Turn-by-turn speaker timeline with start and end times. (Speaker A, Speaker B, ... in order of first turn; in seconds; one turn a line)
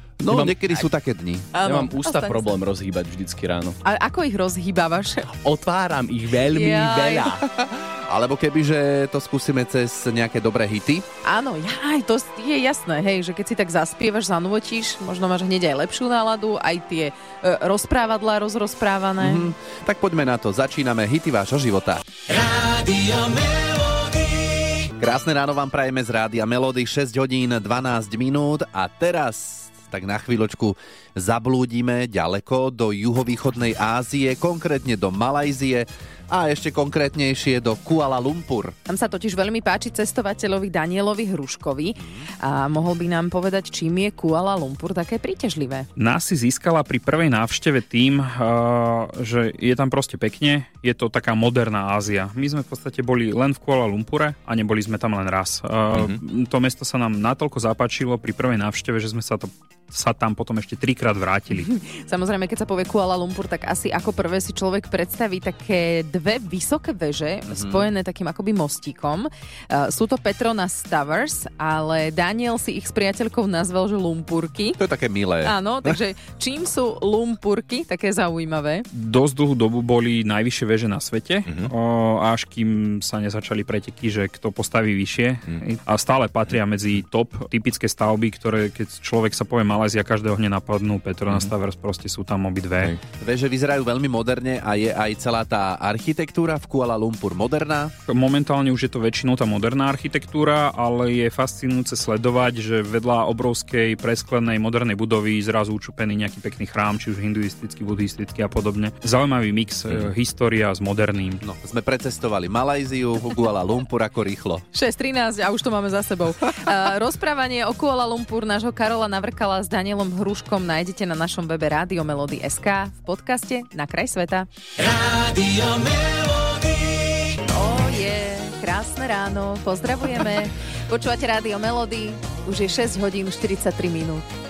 Speaker A: 0.2-1.5
Speaker B: 0.3-0.9
Speaker C: 1.5-2.5
Speaker B: 1.6-3.8
Speaker C: 3.8-5.3
Speaker B: 5.4-7.4
Speaker C: 6.5-7.3
Speaker A: 7.5-11.1
Speaker C: 11.2-19.5
Speaker A: 19.2-22.0
Speaker A: 25.0-38.8
Speaker C: 38.9-45.9
Speaker A: 42.0-42.3
Speaker D: 46.0-61.6
Speaker C: 61.5-74.8
Speaker A: 67.5-67.8
Speaker A: 74.8-76.0
Speaker C: 75.4-78.9
Speaker D: 78.9-93.0
Speaker A: 93.2-97.9
Speaker D: 98.1-111.4
Speaker A: 111.4-114.7
Speaker C: 114.7-124.5
Speaker C: 125.3-125.8
Speaker C: 127.4-134.3